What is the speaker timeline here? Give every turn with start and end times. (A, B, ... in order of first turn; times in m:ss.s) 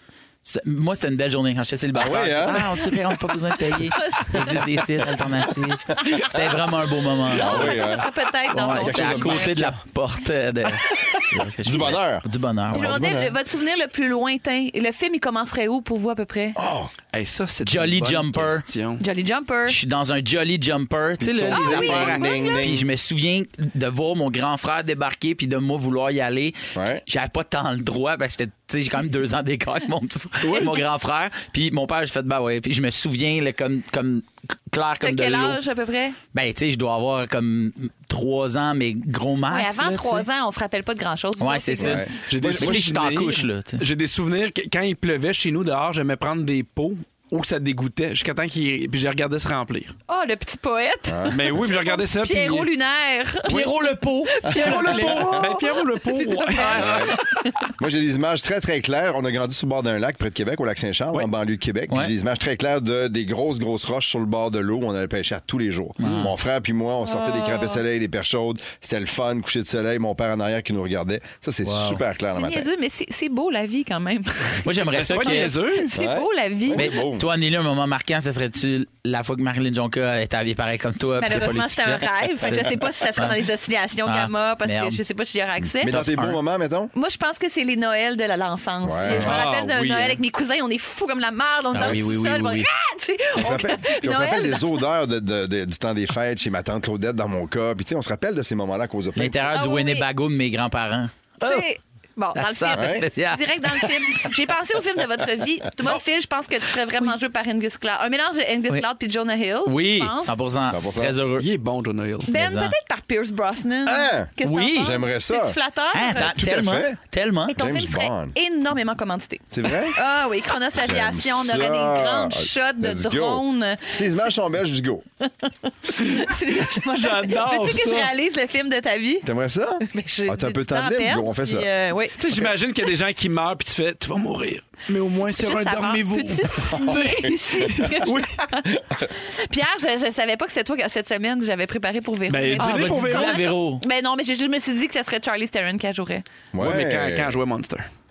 0:00.4-0:08.0 A
0:01.9-0:02.6 B
0:04.0-0:04.8 C
0:07.3-0:09.7 C
0:07.3-0:08.1 B
0:08.5-0:13.2 A
0:08.7-0:09.7 B
0:11.2-0:13.3 B
0:12.7-0:16.6 C
0:16.6-0:16.9 B
0:17.1-0:19.0 D
0:17.6-0:18.7 A
0:19.0-0:19.8 C
0:19.7-0:35.6 A
0:21.2-0:22.9 B
0:21.5-0:22.7 C
0:26.8-0:27.0 B
0:30.4-0:30.8 D
0:35.0-0:36.2 C
0:36.3-0:40.3 A
0:39.5-0:42.0 C
0:41.4-0:43.8 A
0:41.8-0:42.8 B
0:42.3-0:49.9 D
0:50.1-0:57.6 C
0:51.1-0:51.5 B
0:51.3-0:52.7 D
0:53.5-0:55.4 A
0:54.5-0:55.4 B
0:54.5-0:57.2 D
0:56.6-0:57.2 A
0:56.8-0:57.2 B
0:57.8-1:12.7 B
1:06.0-1:06.3 A
1:06.0-1:06.3 D
1:07.0-1:07.8 C
1:11.6-1:12.0 A
1:12.4-1:17.0 C
1:14.6-1:15.6 A
1:15.0-1:16.0 D
1:15.9-1:17.3 B
1:16.7-1:23.4 A
1:21.2-1:26.0 C
1:24.0-1:25.0 A
1:25.8-1:26.9 B
1:25.9-1:26.4 A
1:26.9-1:34.8 C
1:28.8-1:29.4 B
1:29.1-1:30.2 D
1:31.7-1:32.7 A
1:33.4-1:39.5 B
1:39.2-1:41.6 A
1:39.5-1:40.1 C
1:41.4-1:50.3 C
1:42.4-1:44.1 A
1:42.7-1:43.0 B
1:49.6-1:51.5 A
1:50.7-1:51.1 B
1:51.4-1:52.3 D
1:52.3-1:56.3 C
1:52.3-1:52.8 A
1:53.9-1:55.6 B
1:54.4-1:55.0 A
1:55.9-1:57.6 A
1:56.2-1:57.0 B
1:57.5-2:04.0 C
1:57.6-1:58.4 B
1:59.5-2:00.0 B
2:00.8-2:05.0 B
2:05.2-2:09.3 C
2:06.7-2:08.1 D
2:09.2-2:11.7 B
2:09.8-2:12.2 C
2:12.2-2:18.4 D
2:15.4-2:26.2 C
2:16.7-2:18.0 B
2:18.6-2:19.1 B
2:22.3-2:23.4 D
2:22.6-2:23.8 A
2:26.5-2:27.3 B
2:26.6-2:27.9 D